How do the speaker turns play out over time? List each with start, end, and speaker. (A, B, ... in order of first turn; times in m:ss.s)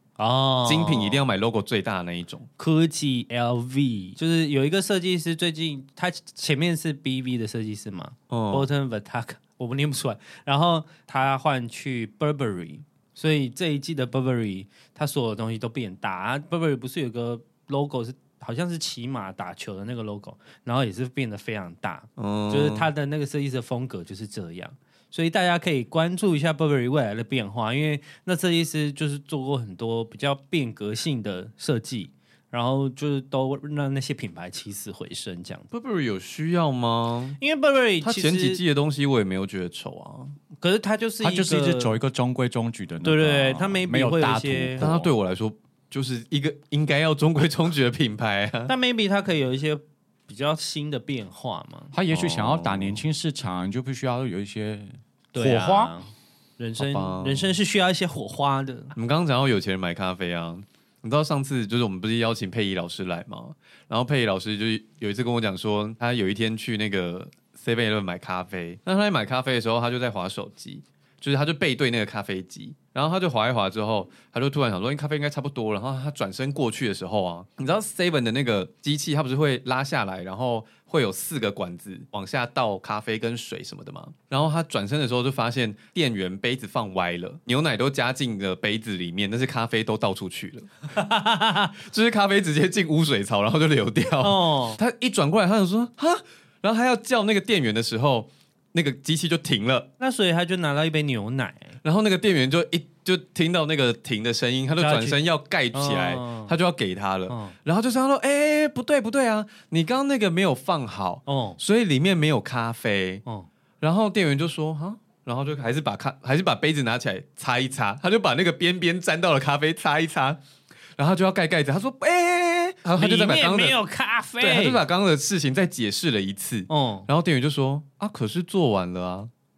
0:00.2-0:01.2 A
0:00.6-0:02.5 B
0:02.6-0:35.7 A
0:08.3-0:08.7 B
0:22.2-0:22.9 B
0:35.7-0:37.4 B
0:37.4-0:38.6 A
0:38.0-0:40.3 B
0:40.6-0:42.0 A
0:41.2-0:45.1 C
0:43.0-0:44.8 A
0:44.8-0:48.7 B
0:48.7-0:51.9 A
0:51.9-0:55.9 C
0:52.1-0:53.0 B
0:55.3-0:58.9 A
0:56.8-0:57.5 B
0:59.0-1:30.9 B
1:30.9-1:31.7 A
1:31.8-1:39.9 B
1:34.2-1:34.8 A
1:40.0-1:41.8 A
1:41.8-1:53.2 B
1:44.8-1:45.2 A
1:45.7-1:46.5 A
1:47.3-1:47.5 A
1:51.3-1:51.6 A
1:53.8-2:00.4 B
2:01.0-2:03.8 B
2:03.0-2:04.8 A
2:04.4-2:09.3 B
2:06.7-2:07.1 A